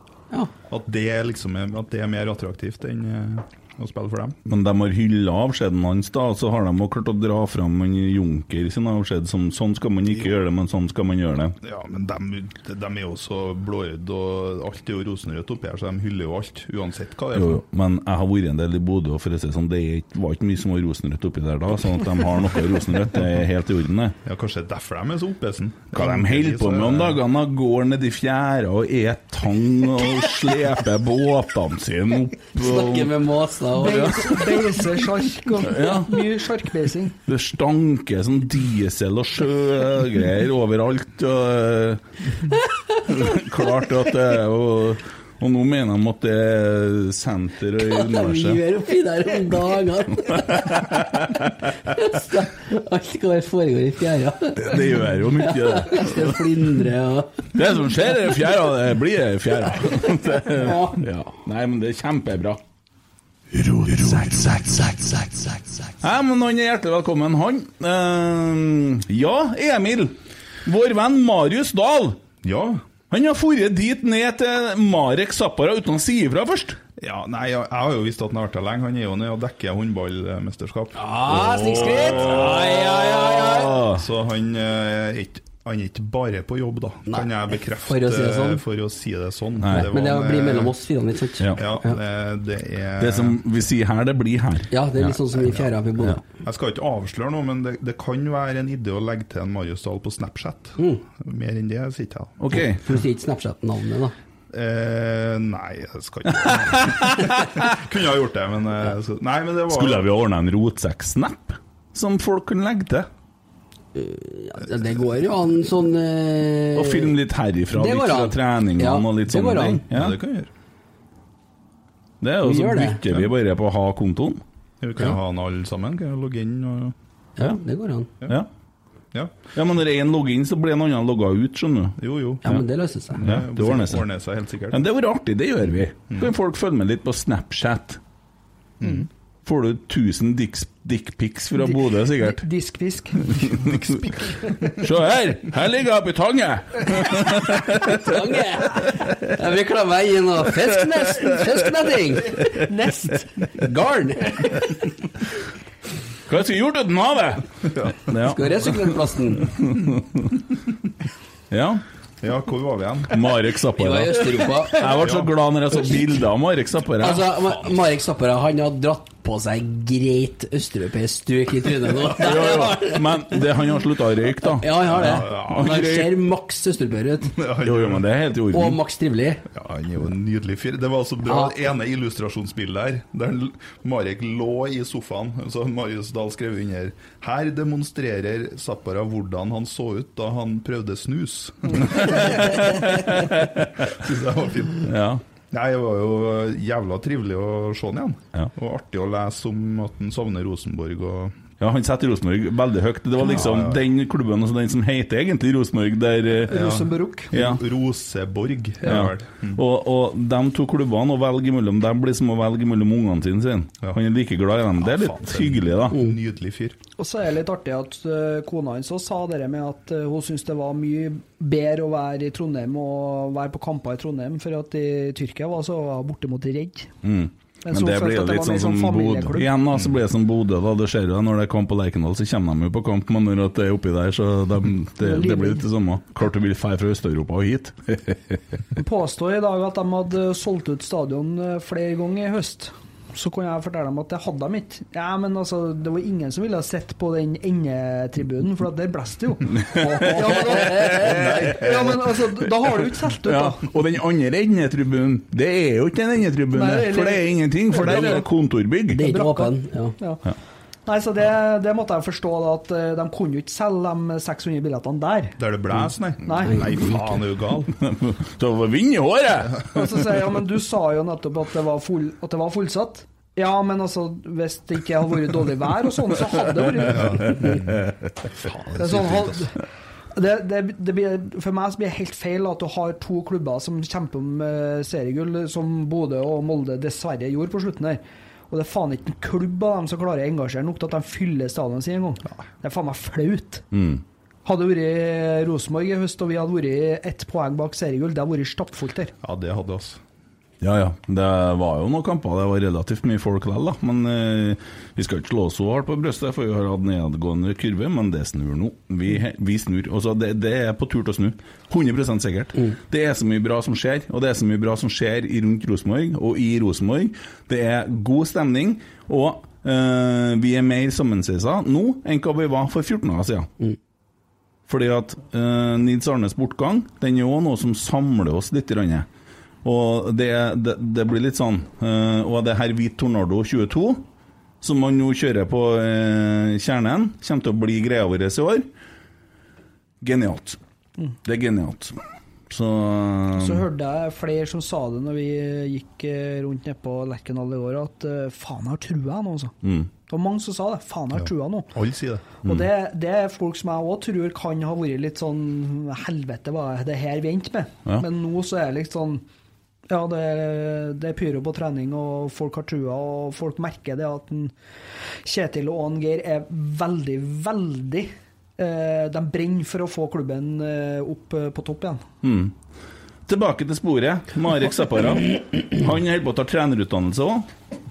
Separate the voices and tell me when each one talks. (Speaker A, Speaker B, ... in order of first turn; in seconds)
Speaker A: 0.7-4.4, 11.6-17.6, 24.2-27.2, 72.4-72.8, 77.0-82.7, 83.9-90.7, 91.6-93.4, 96.4-102.3, 104.5-110.0, 119.9-120.5, 124.8-126.9, 132.0-132.5, 133.1-134.8, 138.8-139.1, 162.2-163.2, 165.0-165.3, 174.8-175.8, 177.4-178.0, 179.5-193.2, 193.9-194.9, 195.5-201.3, 203.2-203.8, 206.5-209.6, 214.8-216.8, 251.1-251.6, 265.4-267.8, 276.8-279.5, 299.2-300.0, 351.7-352.3
Speaker B: 4.5-11.6, 17.3-24.2, 25.9-33.2, 33.8-34.5, 35.6-36.3, 37.2-42.0, 43.0-48.6, 50.2-51.5, 54.6-56.4, 57.5-62.6, 63.5-72.2, 73.1-76.8, 81.3-84.0, 89.6-89.9, 93.0-95.1, 102.4-102.8, 106.5-107.6, 109.7-113.1, 116.7-120.2, 122.2-124.4, 129.5-132.6, 133.2-134.1, 134.7-138.0, 139.4-142.4, 143.3-144.0, 144.7-148.1, 148.8-149.2, 151.1-151.4, 156.3-157.4, 158.0-160.3, 161.5-161.8, 163.1-167.4, 172.1-176.2, 177.6-178.8, 191.8-193.7, 194.8-195.2, 201.6-206.5, 207.3-207.6, 208.8-216.0, 227.0-238.4, 249.6-251.7, 253.2-259.1, 267.8-269.7, 277.2-277.7, 293.7-294.0, 300.6-323.5, 324.7-329.1, 329.6-334.0, 334.6-338.7, 340.0-340.6, 341.2-342.0, 342.5-343.6, 349.6-349.9, 372.2-372.5, 373.3-377.5
Speaker C: 32.5-34.4, 47.8-51.0, 51.9-57.5, 60.5-61.0, 81.0-83.8, 87.1-88.6, 89.7-92.0, 94.7-96.2, 102.8-104.1, 113.9-117.2, 117.7-119.8, 122.4-123.0, 127.4-128.1, 132.4-133.2, 147.8-152.6, 153.5-154.7, 158.2-159.5, 163.7-165.2, 167.0-173.5, 174.4-177.3, 178.5-179.4, 181.2-181.5, 215.9-216.2, 258.9-259.9, 266.5-267.2
Speaker D: 33.7-37.1, 141.6-143.7, 152.6-153.3, 206.5-207.3, 217.0-226.9, 227.7-229.5, 235.0-235.6, 238.8-253.7, 256.5-258.2, 259.0-260.2, 260.9-265.4, 266.2-266.7, 269.7-277.3, 278.8-279.6, 280.1-293.6, 294.4-299.1, 343.4-349.5, 350.1-351.7, 352.4-359.2, 359.9-364.5, 365.2-372.0